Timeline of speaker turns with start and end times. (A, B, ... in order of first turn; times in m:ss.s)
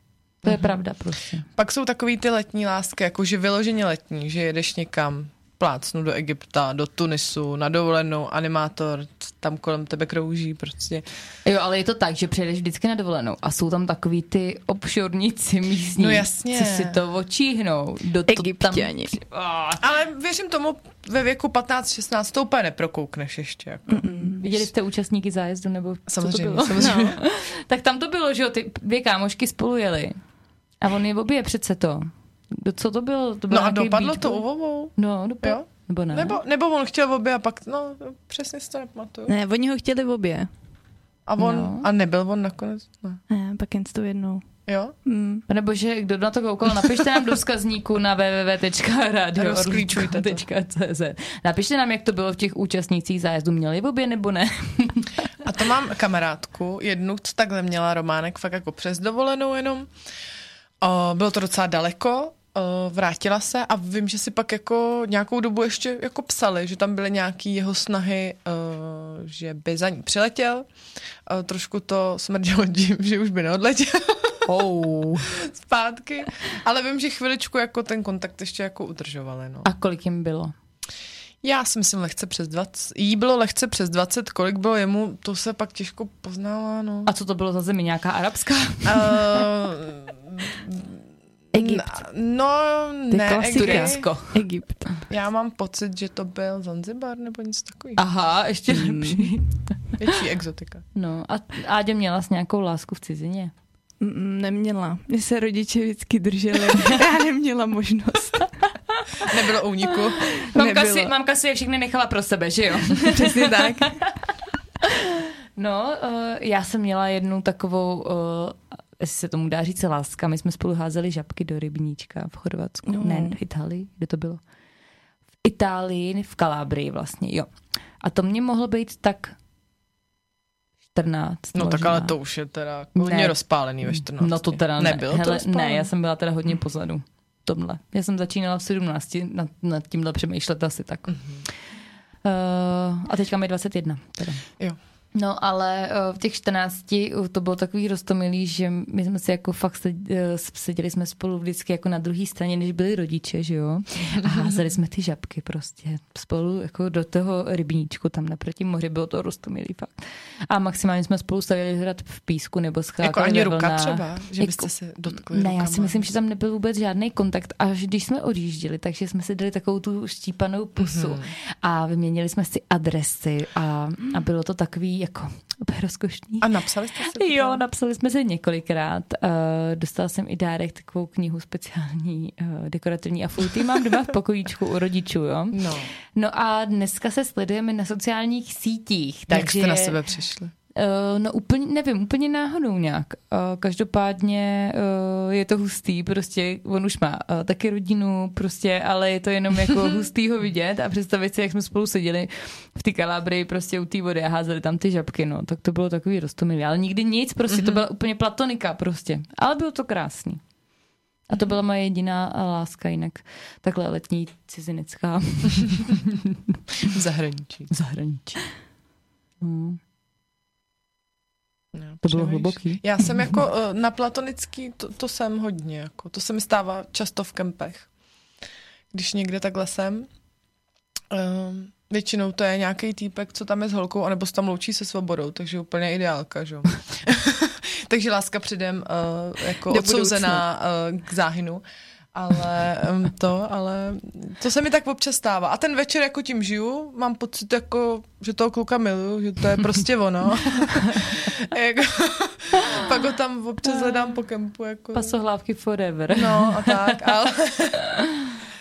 0:00.4-0:01.5 A
0:01.6-0:11.0 B
0:11.4-0:19.8 A
0:16.0-0:17.0 B
0:18.3-0:19.1 C
0:19.8-0:24.6 B
0:23.9-0:24.4 C
0:24.4-0:30.2 A
0:26.1-0:27.2 B
0:26.8-0:27.2 C
0:30.8-0:34.4 A
0:33.5-0:39.3 B
0:35.0-0:36.4 A
0:39.3-0:40.5 C
0:41.3-0:43.2 B
0:41.4-0:41.9 A
0:43.3-0:44.5 C
0:44.7-0:44.9 B
0:45.0-0:45.4 C
0:45.5-0:55.2 A
0:49.4-0:50.4 B
0:55.4-0:59.9 B
1:00.8-1:10.7 B
1:11.3-1:14.5 B
1:14.5-1:15.3 A
1:15.2-1:19.7 B
1:19.6-1:20.5 A
1:21.4-1:27.1 B
1:27.1-1:29.4 A
1:28.9-1:31.0 B
1:31.5-1:34.1 B
1:31.6-1:31.8 C
1:33.1-1:34.9 C
1:33.6-1:34.4 A
1:35.1-1:38.0 B
1:38.0-1:39.5 A
1:38.7-1:39.3 C
1:40.0-1:40.8 B
1:41.0-1:43.5 A
1:44.0-1:48.5 C
1:49.2-1:50.4 B
1:50.4-1:54.1 A
1:50.5-1:51.1 C
1:53.1-1:54.0 C
1:54.8-2:04.4 A
2:02.9-2:03.4 C
2:05.4-2:07.5 A
2:08.0-2:09.4 A
2:10.9-2:12.2 A
2:11.6-2:15.9 B
2:13.0-2:13.4 A
2:13.9-2:21.2 A
2:21.1-2:21.4 B
2:22.2-2:24.4 A
2:25.2-2:56.5 A
2:43.0-2:46.1 B
2:50.8-2:51.3 B
2:56.4-2:57.6 B
2:57.0-3:10.0 A
3:05.5-3:05.9 B
3:09.3-3:10.5 B
3:10.8-3:30.4 A
3:27.5-3:27.8 B
3:31.3-3:36.6 A
3:36.8-3:37.7 B
3:37.7-3:38.4 A
3:39.4-3:39.8 A
3:41.8-3:47.9 B
3:42.0-3:42.8 A
3:48.9-3:50.1 B
3:51.1-4:01.6 B
3:59.7-4:00.4 C
4:02.1-4:15.2 B
4:10.7-4:11.1 A
4:14.9-4:17.0 A
4:16.1-4:18.0 B
4:17.9-4:18.4 A